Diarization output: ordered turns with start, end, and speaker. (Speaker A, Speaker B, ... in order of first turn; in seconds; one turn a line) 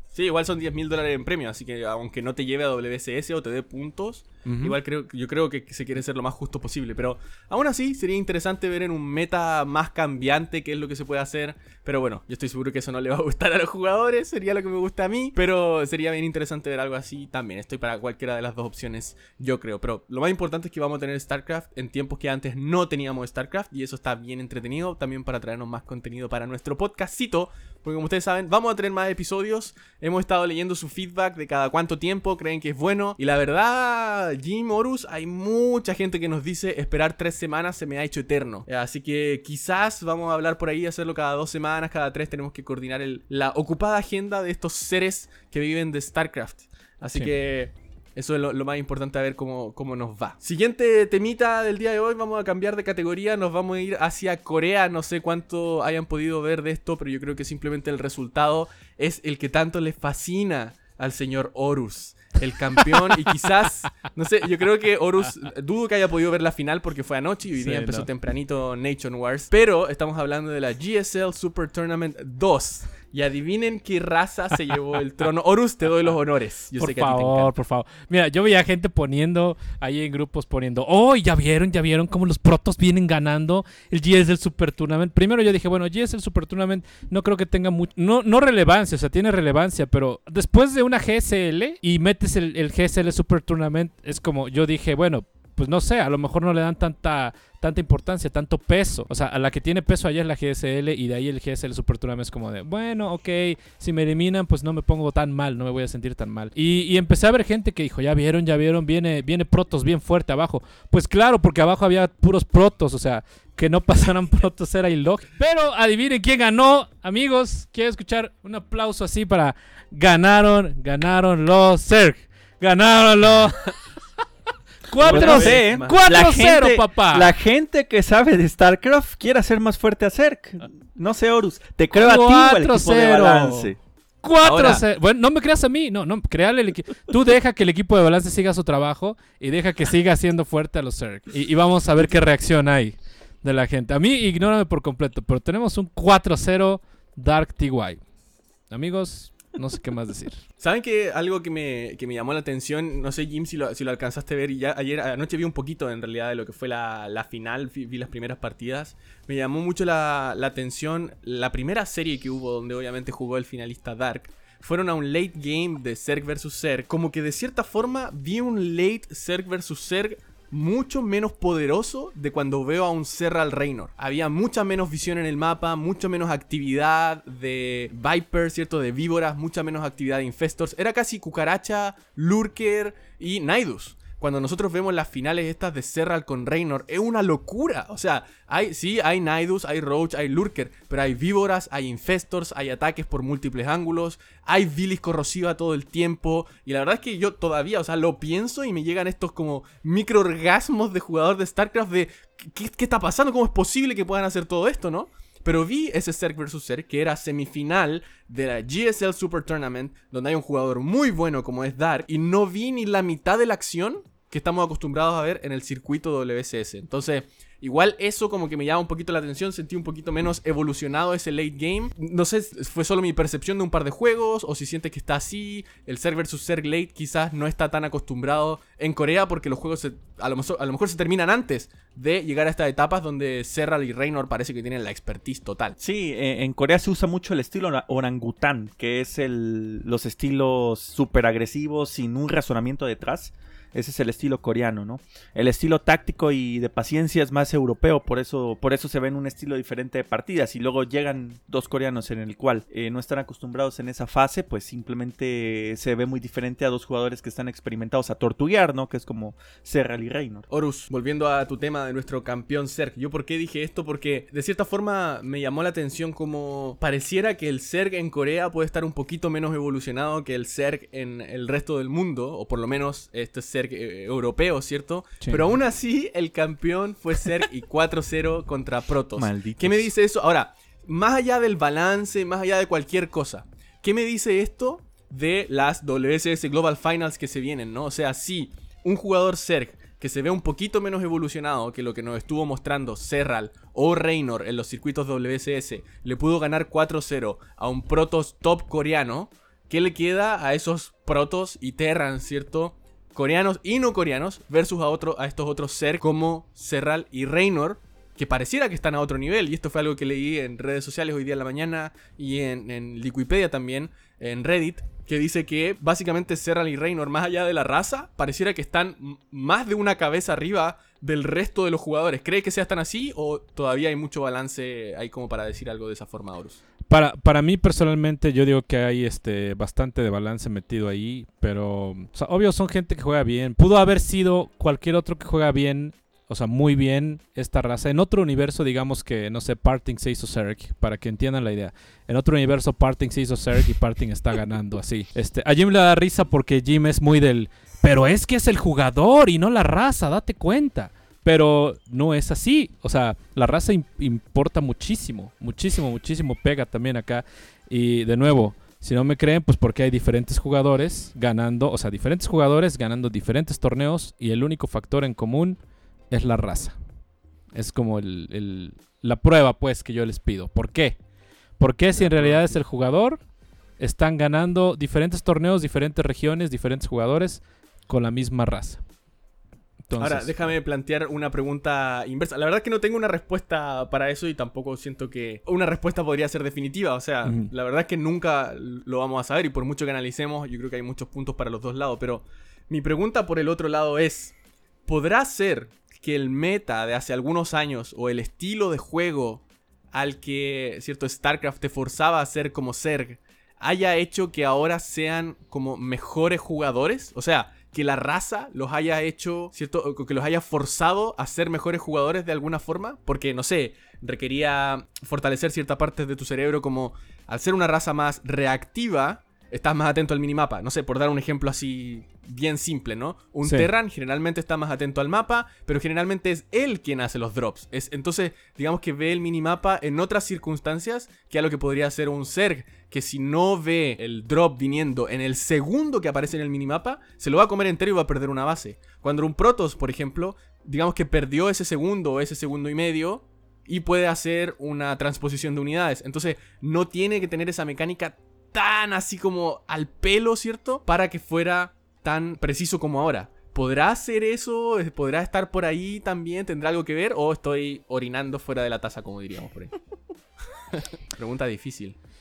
Speaker A: 0.1-77.5
Speaker B: 4.4-4.8
Speaker B: 67.5-68.1
Speaker B: 76.8-123.8
Speaker B: 124.9-127.3
Speaker A: 125.0-125.9
Speaker C: 125.0-133.8
Speaker B: 131.9-148.0
Speaker C: 134.4-134.8
Speaker B: 148.7-150.4
Speaker A: 150.6-235.8
Speaker C: 235.8-260.4
Speaker A: 260.5-326.6
Speaker C: 279.1-279.9
Speaker B: 326.9-366.8
Speaker B: 367.5-371.0
Speaker B: 371.6-373.2
Speaker A: 371.9-372.6
Speaker B: 373.8-378.8
Speaker B: 379.9-380.5
Speaker A: 380.0-394.3
Speaker B: 387.2-387.5
Speaker A: 394.9-459.7
Speaker B: 423.4-423.7
Speaker A: 460.8-462.0